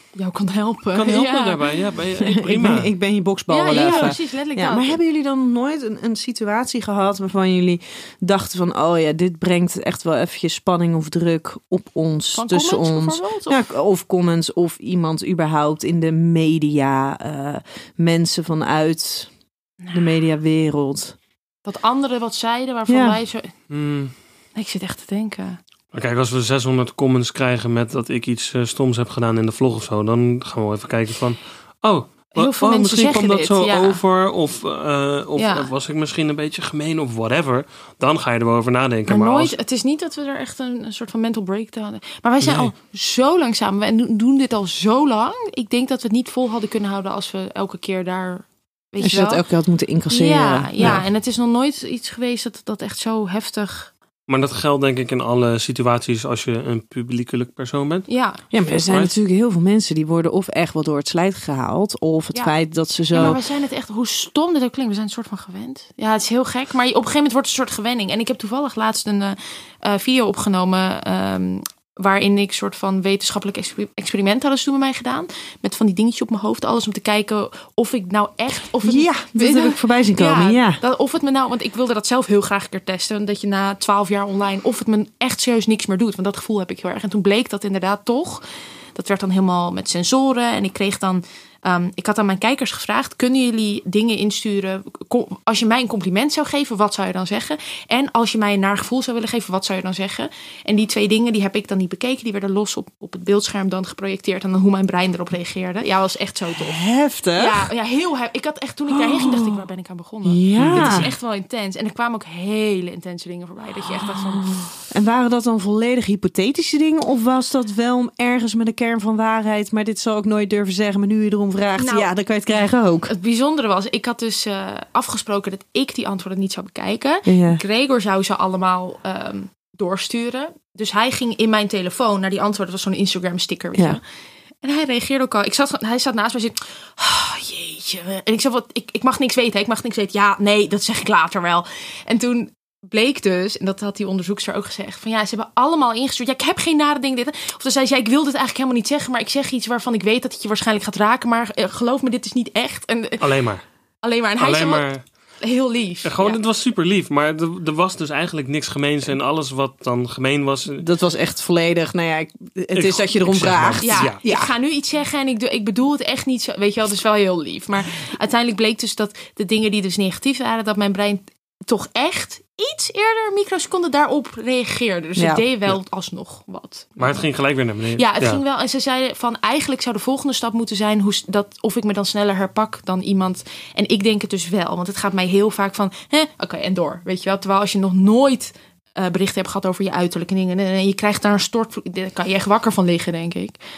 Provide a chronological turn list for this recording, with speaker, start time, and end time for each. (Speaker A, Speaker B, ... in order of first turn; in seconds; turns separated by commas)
Speaker A: 0.2-1.6, Speaker B: 0.9-2.9, Speaker C: 2.2-19.3, Speaker A: 3.5-5.0, Speaker B: 3.7-4.1, Speaker A: 12.4-13.6, Speaker C: 19.9-21.2, Speaker A: 21.6-23.6, Speaker C: 22.9-23.2, Speaker B: 23.7-24.1, Speaker A: 24.6-25.6, Speaker B: 25.9-39.5, Speaker A: 32.4-34.0, Speaker A: 35.4-35.7, Speaker A: 39.1-49.4, Speaker B: 42.4-42.7, Speaker C: 49.0-51.0, Speaker A: 50.1-53.9, Speaker B: 50.8-51.0, Speaker B: 54.3-58.1, Speaker A: 58.1-58.4, Speaker C: 58.5-63.4, Speaker B: 58.6-59.1, Speaker A: 63.1-88.4, Speaker C: 78.8-80.8, Speaker A: 89.0-106.8, Speaker C: 106.6-107.6, Speaker A: 107.3-114.7, Speaker C: 108.9-109.7, Speaker C: 110.2-111.1, Speaker B: 110.6-111.1, Speaker C: 114.4-123.1, Speaker A: 121.8-122.1, Speaker A: 123.1-134.0, Speaker C: 127.3-127.6, Speaker C: 133.8-134.0, Speaker A: 134.6-153.4, Speaker B: 153.2-153.6, Speaker A: 154.0-154.9, Speaker B: 154.4-155.1, Speaker A: 155.4-156.4, Speaker B: 156.0-160.9, Speaker C: 160.8-164.5, Speaker B: 162.7-164.2, Speaker A: 163.8-177.3, Speaker C: 175.2-175.4, Speaker B: 177.0-178.4, Speaker A: 177.9-193.6